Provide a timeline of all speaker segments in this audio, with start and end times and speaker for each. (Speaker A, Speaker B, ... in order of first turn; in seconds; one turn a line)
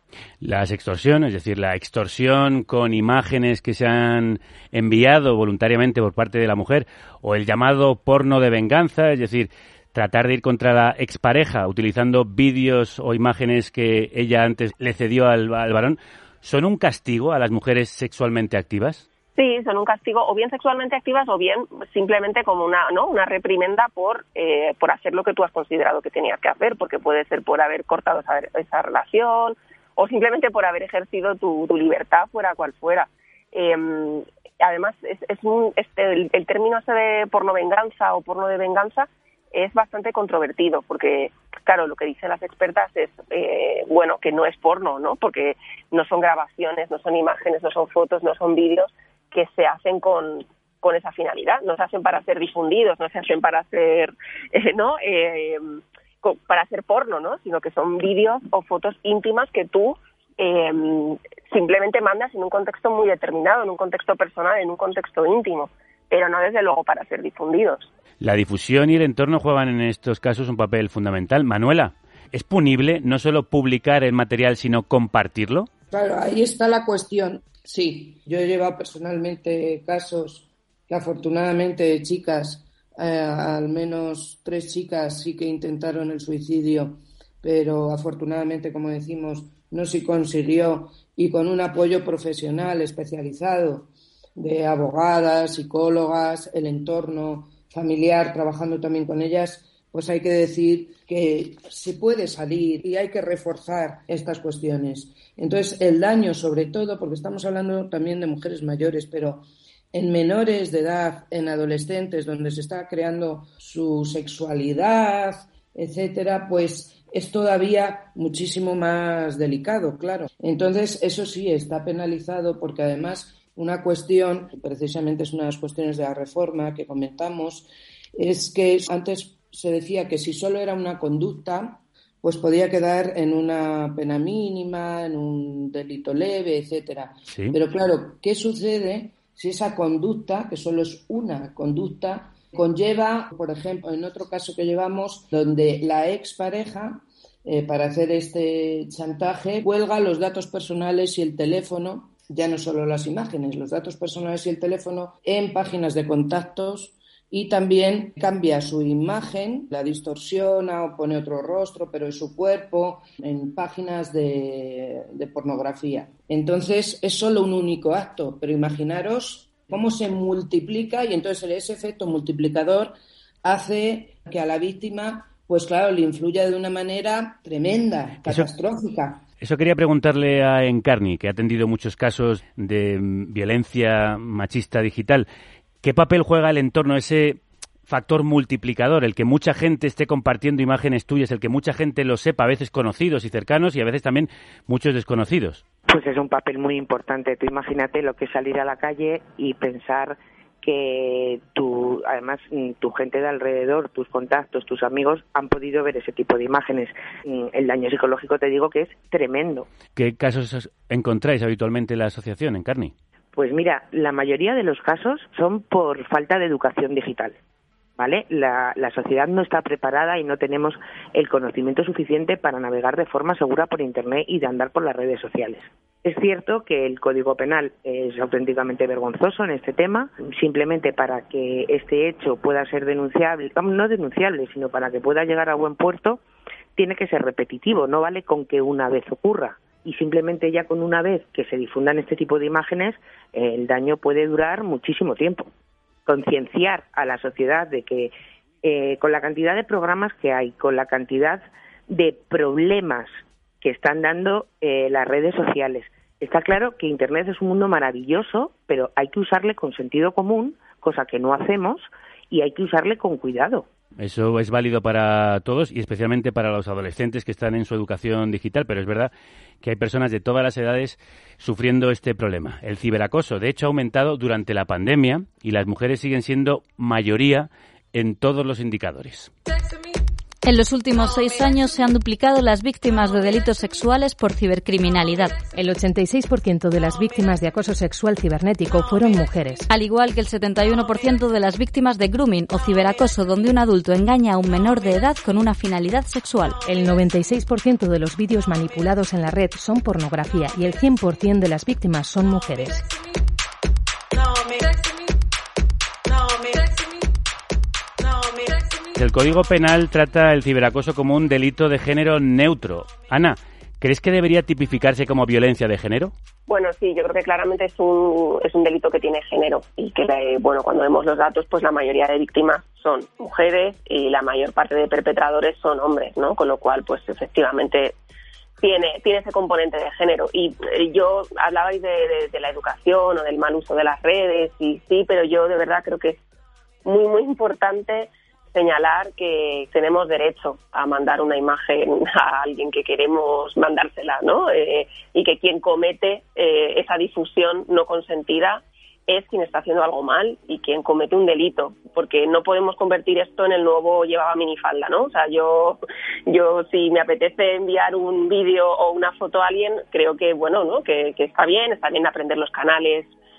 Speaker A: 0.4-19.1
Speaker B: 19.4-67.9
Speaker A: 68.2-75.7
Speaker C: 75.9-179.2
Speaker A: 137.3-137.6
Speaker A: 179.4-185.3
Speaker A: 185.8-195.6
Speaker D: 195.9-209.7
Speaker A: 209.9-212.9
Speaker D: 213.3-217.4
Speaker D: 218.0-236.2
Speaker D: 236.8-245.5
Speaker D: 246.1-248.1
Speaker D: 248.6-263.7
Speaker A: 264.0-269.1
Speaker A: 269.6-279.3
Speaker E: 280.4-285.4
Speaker F: 285.5-289.7
Speaker E: 289.7-296.6
Speaker F: 296.6-302.9
Speaker A: 308.9-316.1
Speaker B: 316.5-328.0
Speaker B: 328.6-336.2
Speaker B: 336.9-363.1